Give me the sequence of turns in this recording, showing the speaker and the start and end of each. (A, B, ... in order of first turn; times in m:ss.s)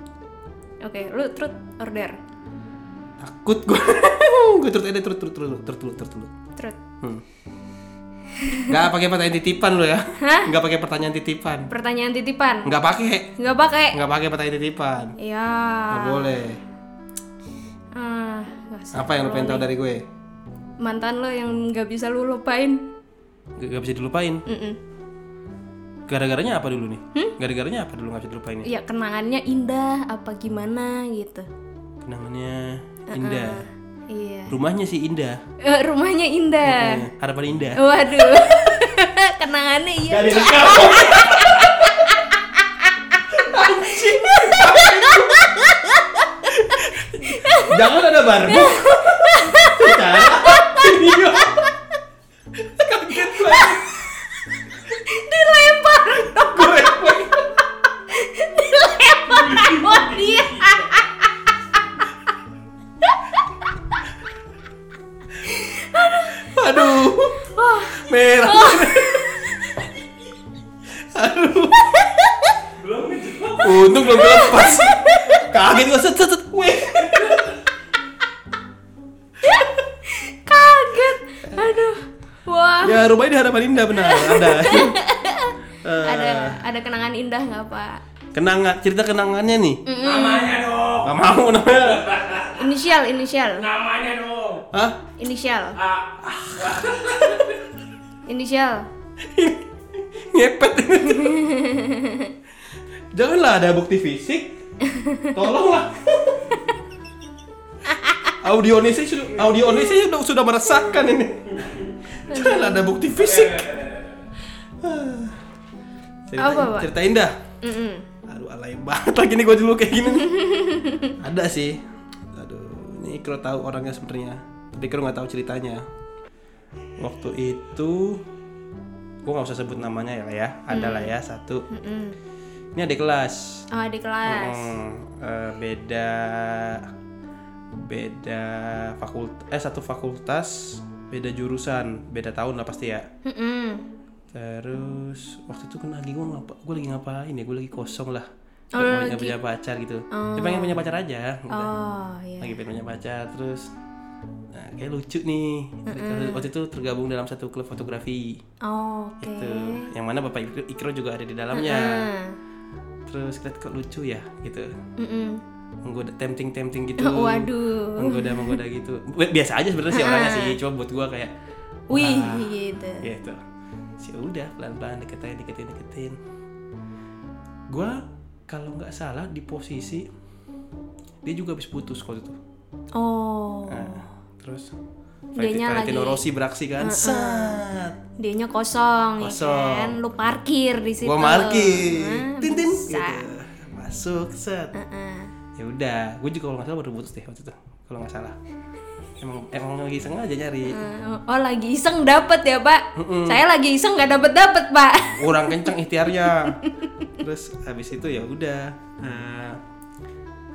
0:00.8-0:02.2 A
0:03.2-0:06.3 B
0:08.4-0:08.7 A
0:08.7-0:11.7 B
0:10.2-0:10.5 A
0:11.7-0:12.7 A
0:12.6-0:13.3 B
0:13.4-0:14.0 A
0:13.9-0:15.2 B
0:15.2-0:16.4 A
0:15.9-0:16.6 B
0:17.9-0:19.6 A
0:18.9-0:20.0 B
0:20.8-0:22.8 A
0:23.6-0:24.4 B
0:24.5-0:24.8 A
0:26.1-0:28.7 B
0:28.6-0:31.5 A
0:32.0-0:33.6 B
0:33.1-0:34.5 A
0:34.5-0:35.4 B
0:35.6-0:37.0 A
0:36.6-0:37.8 B
0:37.8-0:46.3 A
0:40.1-0:41.9 B
0:43.3-0:45.5 B
0:46.5-0:51.7 B
0:47.2-0:47.8 A
0:48.4-0:51.7 A
0:52.8-0:54.0 B
0:53.5-0:53.8 A
0:54.9-0:57.2 A
0:56.4-0:57.5 B
0:58.1-1:01.3 A
0:59.3-1:00.8 C
1:05.4-1:09.5 A
1:06.4-1:09.5 B
1:11.1-1:12.2 B
1:12.8-1:14.2 C
1:13.6-1:17.4 B
1:14.1-1:15.4 A
1:17.1-1:17.5 C
1:19.4-1:23.1 A
1:22.8-1:25.0 B
1:23.9-1:28.0 A
1:25.8-1:26.6 B
1:28.3-1:29.8 B
1:29.8-1:30.6 A
1:30.0-1:31.1 C
1:31.0-1:32.1 B
1:31.9-1:32.7 C
1:32.5-1:33.7 A
1:33.6-1:34.6 C
1:34.7-1:35.0 B
1:35.2-1:35.8 A
1:35.7-1:37.6 C
1:36.2-1:37.1 B
1:38.3-1:38.9 A
1:39.3-1:41.4 B
1:41.1-1:42.3 A
1:43.1-1:44.6 B
1:44.9-1:45.3 A
1:45.3-1:46.5 B
1:47.9-1:48.3 A
1:48.4-1:51.6 B
1:52.3-1:53.7 B
1:52.3-1:52.9 A
1:53.1-1:54.3 C
1:54.8-1:55.4 B
1:56.3-1:57.4 B
1:56.4-1:56.9 A
1:57.6-1:58.0 A
1:58.3-2:00.3 B
2:00.2-2:01.1 A
2:01.2-2:01.8 B
2:02.3-2:05.8 B
2:07.0-2:08.2 B
2:09.2-2:11.6 B
2:10.7-2:11.1 A
2:11.7-2:12.2 A
2:12.8-2:13.6 B
2:13.7-2:14.7 A
2:14.2-2:16.9 B
2:17.7-2:23.1 B
2:23.2-2:23.8 A
2:24.3-2:31.7 B
2:28.8-2:29.3 A
2:30.1-2:30.8 A
2:31.5-2:32.6 A
2:32.4-2:33.7 B
2:34.5-2:38.4 B
2:35.9-2:36.4 A
2:38.6-2:39.9 A
2:39.2-2:42.1 B
2:41.5-2:42.4 A
2:43.1-2:44.7 B
2:45.0-2:45.4 A
2:45.8-2:51.3 B
2:47.0-2:48.6 A
2:49.9-2:50.6 A
2:51.9-2:53.0 A
2:51.9-2:53.4 B
2:54.0-2:56.2 B
2:57.7-3:00.1 B
3:01.2-3:02.4 B
3:02.9-3:04.0 A
3:03.7-3:04.7 B
3:05.4-3:08.0 B
3:05.4-3:06.2 A
3:06.8-3:07.6 A
3:08.2-3:13.2 A
3:09.2-3:10.0 B
3:11.0-3:14.7 B
3:14.7-3:15.3 A
3:15.6-3:18.3 B
3:19.2-3:20.8 B
3:20.7-3:25.7 A
3:22.9-3:23.4 B
3:25.2-3:26.6 B
3:26.2-3:26.7 A
3:27.2-3:29.6 B